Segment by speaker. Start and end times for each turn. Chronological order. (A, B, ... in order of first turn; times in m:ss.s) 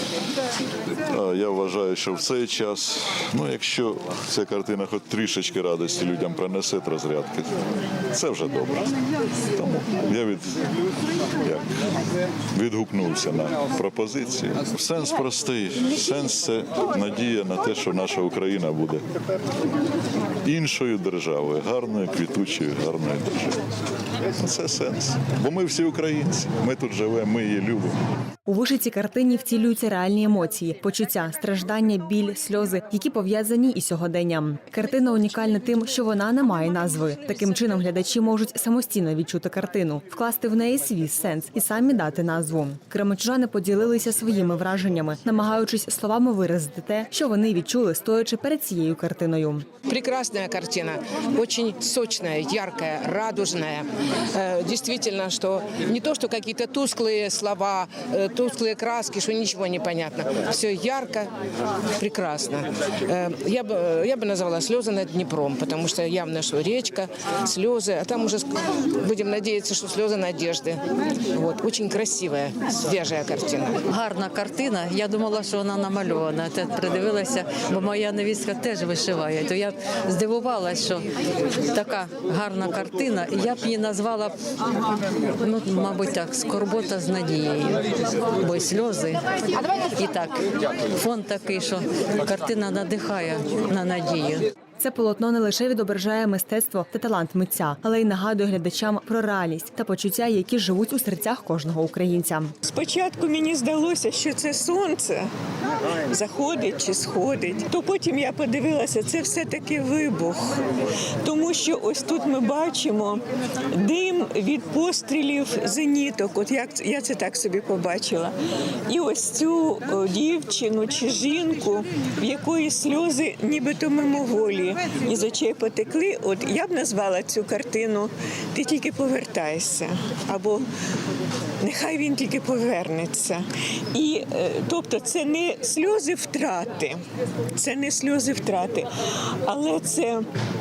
0:01.1-0:07.5 A
0:08.1-0:08.8 A
0:09.5-0:10.6 A
0:11.4-0:11.7 A
0:12.5-0:19.1 A
0:20.4-0:23.6 A
0:24.4-0:28.0 A
0:28.4-0:49.7 B
0:49.8-1:01.3 C
1:02.0-1:13.8 C
1:13.9-1:24.4 D
1:25.4-1:34.5 D
1:34.8-1:42.5 B
1:42.7-1:45.3 E
1:46.1-1:50.5 E
1:51.2-1:53.2 E
1:53.8-1:58.3 E
1:58.9-2:10.6 E
2:11.6-2:17.0 E
2:17.6-2:18.8 E
2:19.4-2:20.2 E